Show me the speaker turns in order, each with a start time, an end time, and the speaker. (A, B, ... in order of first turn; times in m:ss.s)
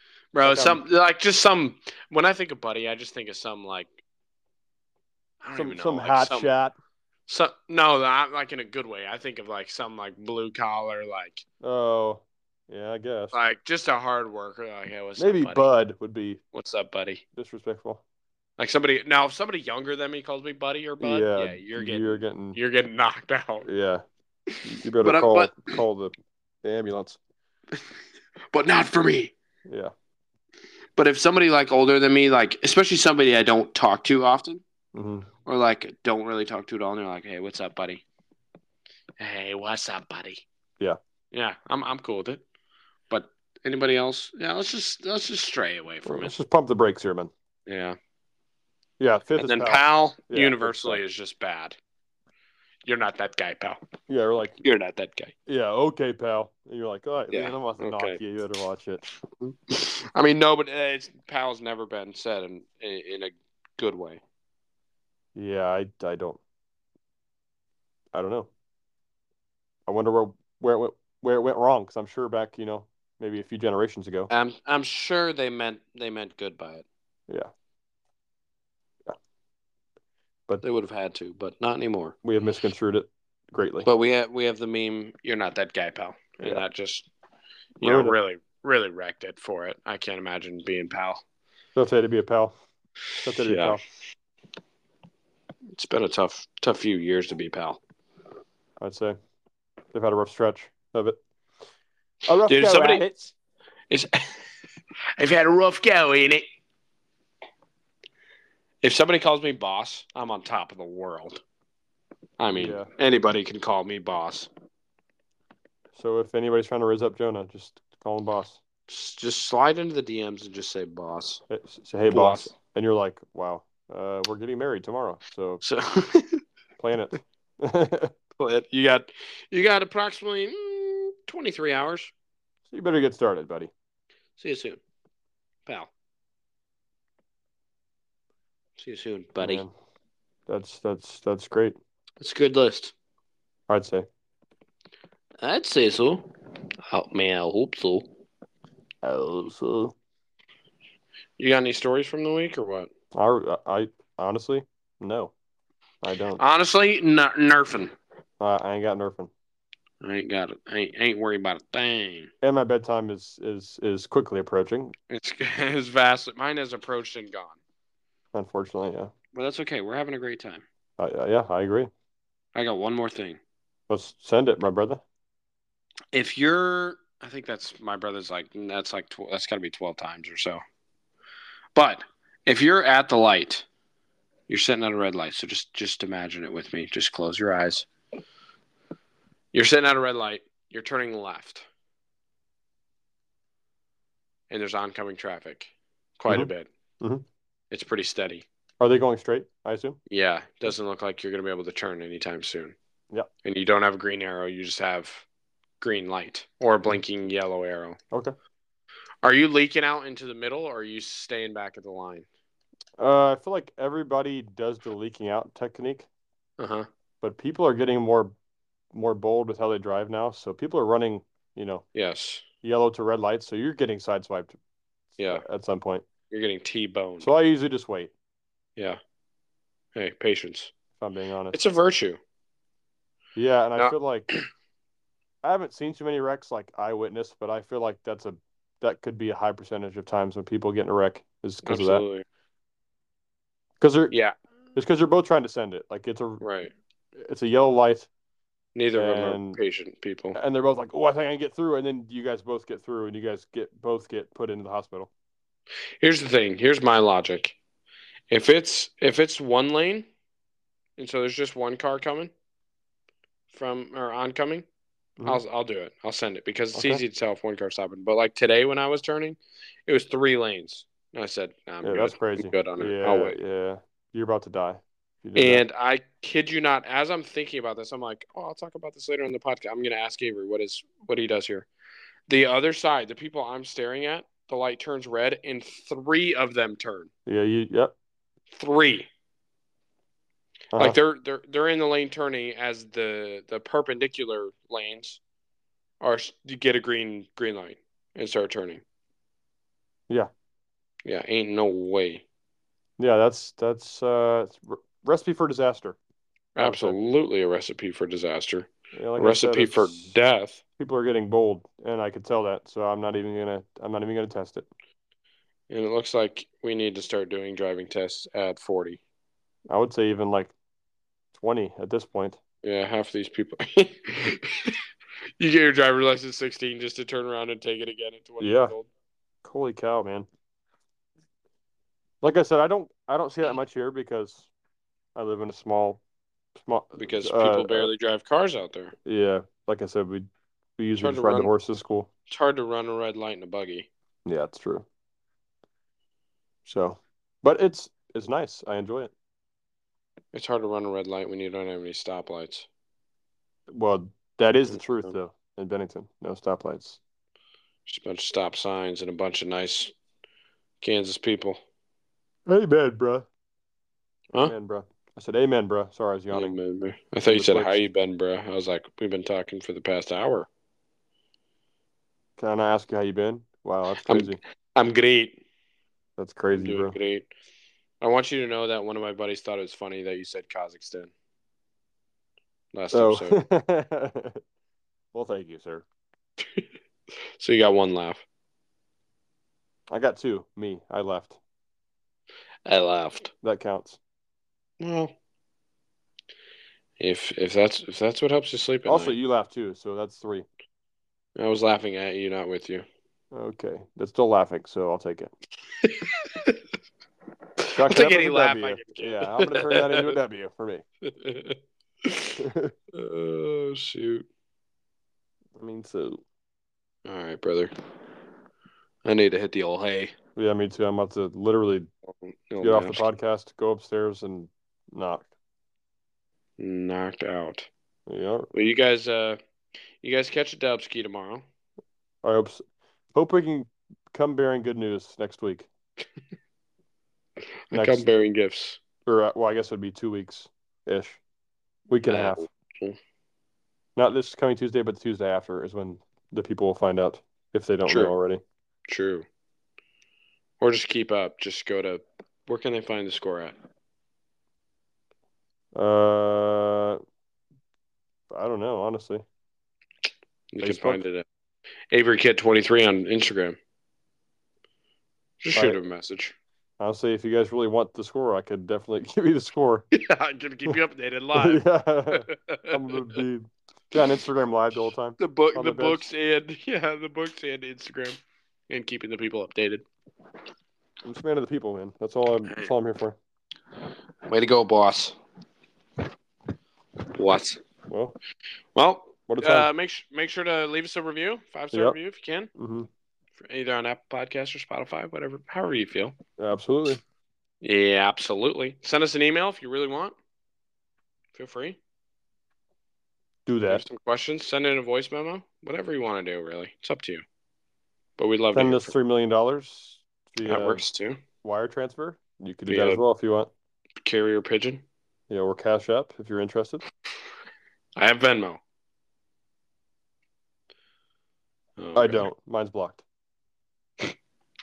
0:00.3-0:03.9 A
0:00.4-0:00.8 B
0:05.4-0:06.5 A
0:05.6-0:06.7 B
0:07.3-0:11.4 A
0:11.6-0:13.4 B
0:13.3-0:15.7 A
0:15.2-0:16.4 B
0:16.5-0:17.2 A
0:17.4-0:18.0 B
0:18.6-0:23.7 A
0:21.0-0:22.6 B
0:23.6-0:24.0 B
0:24.6-0:25.7 A
0:24.6-0:27.2 B
0:28.5-0:29.3 A
0:29.7-0:29.9 B
0:31.0-0:34.6 A
0:34.9-0:35.3 B
0:35.4-0:38.0 A
0:39.2-0:40.4 A
0:41.3-0:42.4 A
0:43.1-0:46.3 A
0:46.0-0:47.3 B
0:47.7-0:48.0 A
0:49.0-0:51.0 B
0:49.4-0:51.8 A
0:52.8-0:53.8 A
0:54.1-0:54.6 B
0:54.6-0:55.3 A
0:55.5-0:59.0 B
0:57.3-0:58.2 A
0:59.4-1:04.2 A
1:05.4-1:06.4 B
1:08.1-1:08.5 B
1:09.9-1:14.3 B
1:14.3-1:16.8 A
1:20.6-1:22.2 A
1:22.2-1:23.9 B
1:23.8-1:27.1 A
1:27.8-1:31.2 A
1:27.8-1:28.1 B
1:31.7-1:32.5 B
1:33.2-1:33.8 B
1:33.3-1:33.8 A
1:35.8-1:37.8 A
1:38.8-1:39.2 B
1:39.9-1:41.2 B
1:42.3-1:43.3 B
1:42.5-1:43.0 A
1:43.9-1:44.4 A
1:45.2-1:46.4 A
1:48.8-1:51.4 A
1:52.4-1:54.5 A
1:52.5-1:52.9 B
1:56.0-1:58.6 B
1:58.9-2:01.4 A
2:01.5-2:05.6 B
2:02.1-2:02.5 A
2:05.6-2:06.4 A
2:06.8-2:08.1 B
2:08.4-2:12.1 A
2:12.7-2:13.7 B
2:14.4-2:14.8 A
2:18.8-2:19.6 A
2:19.4-2:19.7 B
2:20.5-2:21.8 B
2:22.2-2:22.9 A
2:23.7-2:24.0 B
2:25.4-2:26.3 A
2:26.9-2:28.1 A
2:29.0-2:29.9 B
2:31.4-2:32.9 A
2:33.1-2:35.3 B
2:36.0-2:36.4 B
2:36.4-2:37.9 A
2:38.4-2:39.3 B
2:40.0-2:42.3 A
2:42.4-2:44.9 B
2:45.1-2:47.6 A
2:48.3-2:49.1 B
2:49.3-2:50.6 A
2:51.0-2:51.9 B
2:52.6-2:53.4 A
2:53.9-2:55.0 B
2:56.1-3:00.6 A
3:01.8-3:03.7 A
3:04.5-3:07.9 A
3:09.5-3:11.7 A
3:14.5-3:16.7 A
3:17.7-3:18.4 A
3:18.8-3:20.0 B
3:20.1-3:22.8 A
3:23.4-3:25.2 A
3:25.8-3:28.0 A
3:29.2-3:32.3 A
3:33.0-3:36.1 B
3:36.6-3:36.9 A
3:37.2-3:38.4 B
3:38.9-3:41.8 B
3:42.0-3:42.4 A
3:42.6-3:44.6 B
3:45.2-3:45.4 A
3:45.3-3:46.0 B
3:46.3-3:47.3 A
3:47.2-3:48.1 B
3:50.0-3:50.7 A
3:51.0-3:51.6 B
3:51.5-3:52.2 A
3:53.4-3:54.3 B
3:53.8-3:54.4 A
3:55.4-4:02.0 B
4:01.6-4:02.2 A
4:03.8-4:04.1 B
4:04.1-4:04.4 A
4:04.7-4:06.4 B
4:06.4-4:06.7 A
4:07.1-4:08.1 B
4:08.7-4:10.4 A
4:09.0-4:09.6 B
4:10.4-4:15.1 B
4:16.0-4:17.6 A
4:18.3-4:20.1 A
4:21.0-4:22.3 A
4:23.5-4:24.7 A
4:25.2-4:33.4 A
4:26.7-4:27.0 B
4:31.8-4:35.6 B
4:35.4-4:41.7 A
4:42.3-4:47.1 A
4:47.3-4:47.9 B
4:48.5-4:49.1 A
4:50.7-4:55.2 A
4:56.0-4:58.8 A
5:01.0-5:02.2 A
5:03.0-5:06.0 B
5:06.6-5:10.6 A
5:06.6-5:07.0 B
5:08.9-5:10.2 B
5:10.8-5:14.7 B
5:15.7-5:19.0 A
5:19.7-5:20.5 B
5:21.4-5:22.4 B
5:22.6-5:24.8 A
5:25.4-5:28.9 A
5:28.4-5:28.7 B
5:29.4-5:30.3 B
5:32.2-5:34.5 B
5:35.2-5:36.0 B
5:36.6-5:37.9 B
5:37.0-5:39.0 A
5:39.0-5:40.3 B
5:40.8-5:42.1 B
5:41.0-5:41.5 A
5:42.3-5:43.9 A
5:44.3-5:44.9 B
5:46.7-5:49.1 B
5:50.3-5:52.7 A
5:53.7-5:57.0 B
5:57.9-5:59.9 A
6:00.8-6:01.6 A
6:02.5-6:03.3 B
6:04.4-6:06.6 B
6:06.3-6:10.5 A
6:07.3-6:07.8 B
6:12.4-6:14.4 B
6:14.0-6:15.4 A
6:16.2-6:17.0 B
6:16.5-6:17.3 A
6:18.0-6:21.1 A
6:22.7-6:23.4 A
6:22.9-6:24.4 B
6:25.1-6:25.9 B
6:27.4-6:28.2 A
6:29.9-6:31.4 B
6:32.7-6:33.3 A
6:33.4-6:34.0 B
6:34.8-6:35.1 A
6:37.0-6:39.2 A
6:38.9-6:40.4 B
6:41.4-6:42.8 A
6:43.3-6:45.3 B
6:45.8-6:46.6 A
6:47.6-6:50.2 A
6:47.7-6:50.8 B
6:51.0-6:52.4 A
6:52.4-6:52.7 B
6:52.9-6:54.3 A
6:55.6-6:56.2 B
6:57.0-6:57.7 A
6:59.0-7:00.1 A
7:00.4-7:01.9 B
7:02.5-7:03.0 A
7:02.6-7:05.3 B
7:06.6-7:07.7 A
7:08.1-7:08.5 B
7:08.5-7:09.4 A
7:10.0-7:11.4 A
7:12.2-7:12.6 B
7:13.1-7:15.7 B
7:17.7-7:18.8 A
7:17.7-7:18.1 B
7:19.0-7:21.2 B
7:21.9-7:22.4 B
7:22.1-7:23.0 A
7:24.0-7:28.4 B
7:27.9-7:28.1 A
7:28.9-7:29.2 A
7:30.6-7:33.6 A
7:35.7-7:37.0 B
7:38.3-7:39.2 B
7:40.5-7:41.2 A
7:40.6-7:41.0 B
7:41.9-7:43.6 A
7:45.4-7:46.4 A
7:45.5-7:45.8 B
7:46.8-7:49.9 B
7:49.9-7:53.0 A
7:51.3-7:56.0 B
7:55.2-7:59.8 A
8:01.0-8:03.2 B
8:04.3-8:05.2 A
8:07.1-8:07.6 A
8:07.9-8:08.2 B
8:08.7-8:12.5 A
8:09.3-8:09.7 B
8:12.6-8:12.9 B
8:13.4-8:16.2 A
8:16.4-8:17.0 B
8:17.6-8:20.1 A
8:21.3-8:21.8 A
8:23.4-8:23.8 B
8:23.7-8:27.2 A
8:28.2-8:28.9 A
8:28.5-8:30.8 B
8:30.4-8:31.2 A
8:31.4-8:33.5 B
8:32.7-8:33.0 A
8:34.0-8:34.8 A
8:35.3-8:36.8 B
8:38.0-8:38.6 A
8:41.8-8:42.3 A
8:42.0-8:43.0 B